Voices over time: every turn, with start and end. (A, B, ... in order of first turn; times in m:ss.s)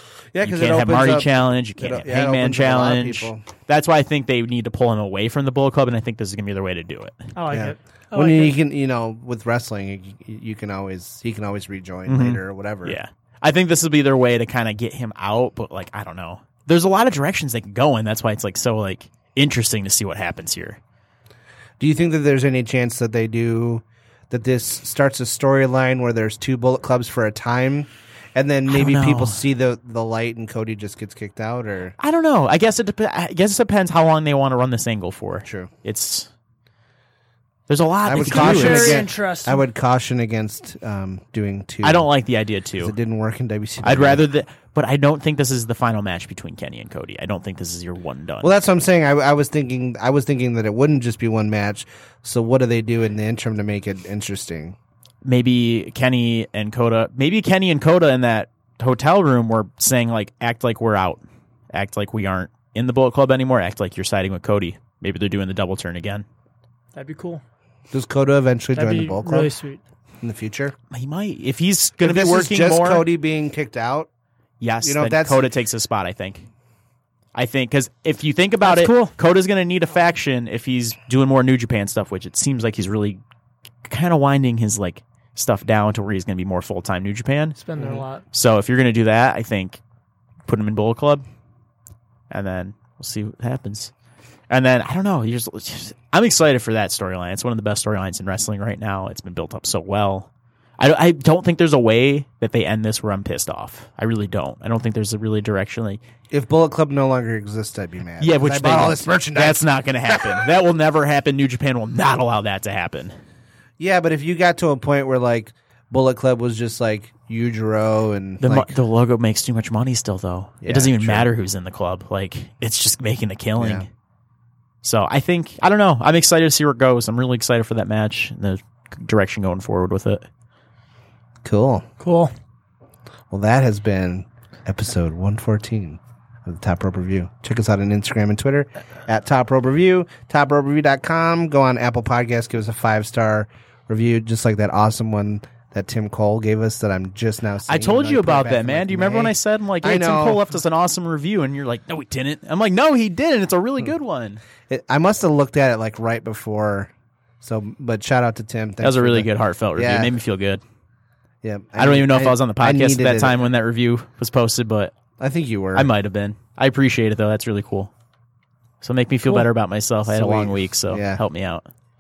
0:00.3-0:03.4 A
0:00.4-0:07.2 B
0:07.4-0:08.5 C
0:07.5-0:13.0 A
0:12.1-0:20.8 B
0:21.8-0:32.0 A
0:28.7-0:29.4 B
0:32.0-0:36.3 B
0:35.4-0:35.7 A
0:37.7-0:39.1 B
0:38.0-0:42.1 A
0:38.2-0:39.6 C
0:41.8-0:42.9 B
0:42.8-0:44.3 A
0:43.8-0:48.6 B
0:48.4-0:54.8 A
0:55.2-1:06.3 B
1:06.9-1:07.4 C
1:07.9-1:09.6 A
1:08.8-1:09.8 C
1:10.2-1:10.8 A
1:10.9-1:13.1 B
1:12.0-1:14.1 A
1:14.6-1:16.5 B
1:14.8-1:15.5 A
1:17.3-1:23.2 B
1:18.6-1:19.2 C
1:23.8-1:27.6 B
1:27.6-1:28.2 C
1:27.8-1:28.0 A
1:28.3-1:29.8 B
1:30.5-1:31.3 B
1:32.3-1:33.9 B
1:34.5-1:46.0 B
1:46.3-1:50.4 A
1:48.2-1:53.2 B
1:53.8-1:58.8 A
1:58.4-2:03.9 B
2:00.6-2:01.3 A
2:03.6-2:03.9 A
2:04.8-2:10.3 B
2:11.4-2:11.9 A
2:12.0-2:12.3 C
2:13.3-2:30.4 A
2:27.7-2:34.4 B
2:34.7-2:36.9 A
2:37.4-2:40.2 A
2:38.8-2:40.6 B
2:41.4-2:43.5 A
2:41.8-2:44.9 B
2:45.2-2:45.9 A
2:45.8-2:47.9 B
2:48.8-2:51.7 B
2:50.1-2:51.2 A